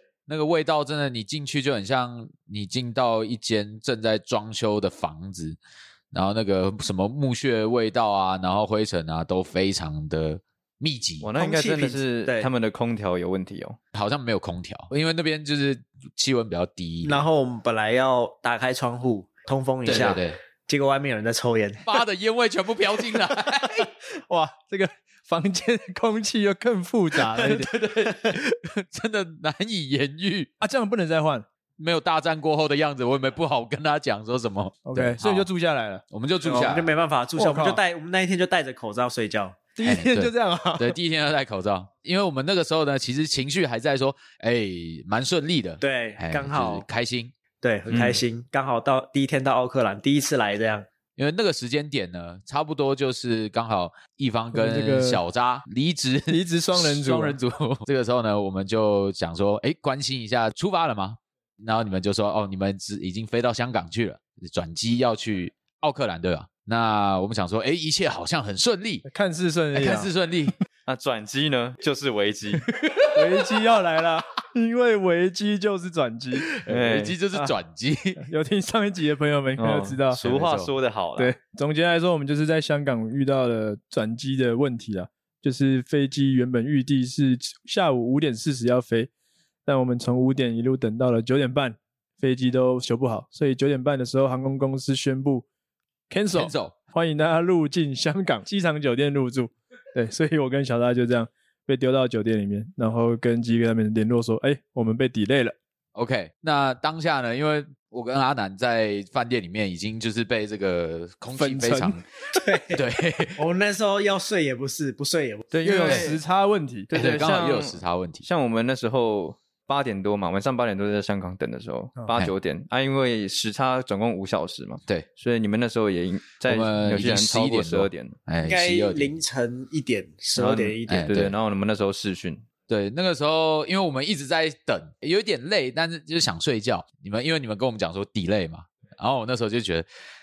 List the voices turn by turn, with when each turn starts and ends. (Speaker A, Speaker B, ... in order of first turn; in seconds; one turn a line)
Speaker A: 0.3-5.6
Speaker A: 6.1-11.3
Speaker B: 11.2-13.8
Speaker C: 11.3-12.5
Speaker A: 13.9-17.2
Speaker C: 17.0-21.8
Speaker A: 19.8-20.4
Speaker A: 21.8-23.9
Speaker D: 24.3-27.7
Speaker A: 27.3-30.5
Speaker D: 30.6-31.4
Speaker A: 31.8-35.5
Speaker D: 34.8-36.0
Speaker A: 36.1-36.9
Speaker C: 36.4-39.6
Speaker D: 37.4-37.8
Speaker D: 39.8-40.9
Speaker A: 39.8-47.3
Speaker C: 45.8-46.8
Speaker C: 47.6-50.9
Speaker B: 47.9-48.2
Speaker A: 51.1-69.0
Speaker D: 54.5-55.2
Speaker D: 56.3-57.4
Speaker D: 69.0-70.1
Speaker A: 69.7-70.5
Speaker B: 70.8-72.7
Speaker D: 73.1-76.6
Speaker A: 76.4-78.2
Speaker B: 76.7-77.1
Speaker D: 78.2-80.2
Speaker B: 79.6-81.3
Speaker A: 80.1-80.7
Speaker D: 81.2-89.1
Speaker D: 89.7-95.5
Speaker D: 96.1-105.5
Speaker A: 96.3-96.7
Speaker A: 105.9-112.0
Speaker D: 111.3-112.0
Speaker C: 112.3-112.8
Speaker A: 112.7-113.4
Speaker C: 113.3-115.5
Speaker B: 115.5-116.2
Speaker D: 115.6-116.9
Speaker B: 116.9-128.2
Speaker A: 116.9-118.2
Speaker A: 126.4-129.1
Speaker C: 128.4-131.1
Speaker B: 130.3-132.4
Speaker A: 130.9-131.3
Speaker A: 132.7-139.8